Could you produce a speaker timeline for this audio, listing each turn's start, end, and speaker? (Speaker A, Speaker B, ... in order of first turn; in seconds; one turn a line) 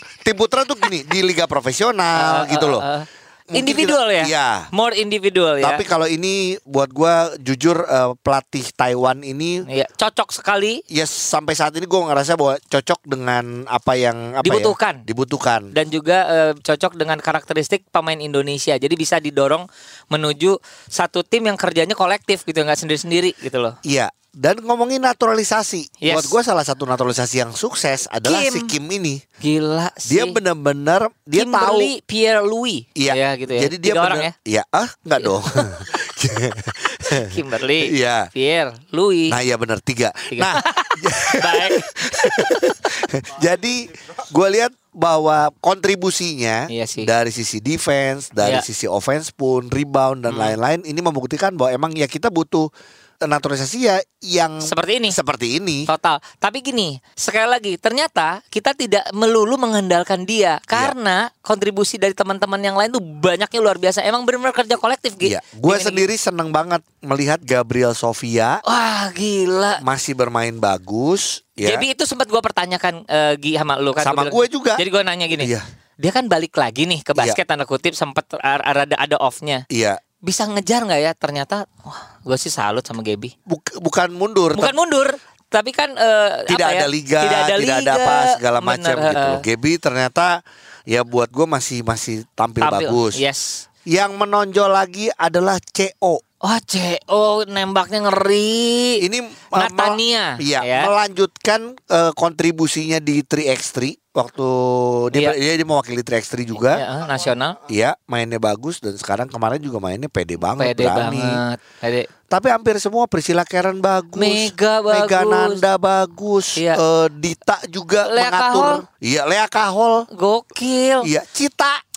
Speaker A: 0.2-2.8
Speaker B: 2.2-5.8
Speaker A: 3.5-4.7
Speaker A: 5.6-9.6
Speaker B: 9.7-10.8
Speaker A: 10.9-15.7
Speaker B: 14.4-15.0
Speaker B: 15.7-23.7
Speaker A: 23.8-29.2
Speaker B: 26.0-26.3
Speaker B: 28.2-28.7
Speaker B: 29.4-30.4
Speaker A: 30.1-31.9
Speaker B: 31.4-34.3
Speaker A: 33.0-37.3
Speaker B: 35.2-35.7
Speaker B: 37.1-39.3
Speaker A: 37.8-38.3
Speaker A: 39.3-52.7
Speaker B: 40.3-42.4
Speaker B: 46.7-47.1
Speaker B: 50.3-50.5
Speaker A: 53.2-55.9
Speaker B: 54.6-55.1
Speaker B: 55.9-66.0
Speaker A: 65.2-68.6
Speaker B: 68.6-69.8
Speaker A: 69.8-71.8
Speaker B: 71.6-75.5
Speaker A: 74.0-74.8
Speaker A: 75.3-75.6
Speaker B: 76.0-79.6
Speaker A: 79.7-80.0
Speaker B: 80.2-83.3
Speaker A: 83.5-84.7
Speaker B: 84.5-89.4
Speaker A: 86.5-93.2
Speaker B: 92.6-93.6
Speaker A: 93.9-96.2
Speaker B: 96.4-99.0
Speaker A: 99.0-106.8
Speaker B: 99.6-100.9
Speaker B: 106.6-107.6
Speaker A: 107.7-111.4
Speaker B: 110.6-112.1
Speaker A: 112.3-120.1
Speaker B: 114.2-115.6
Speaker B: 118.0-118.8
Speaker B: 120.1-121.1
Speaker A: 121.0-121.8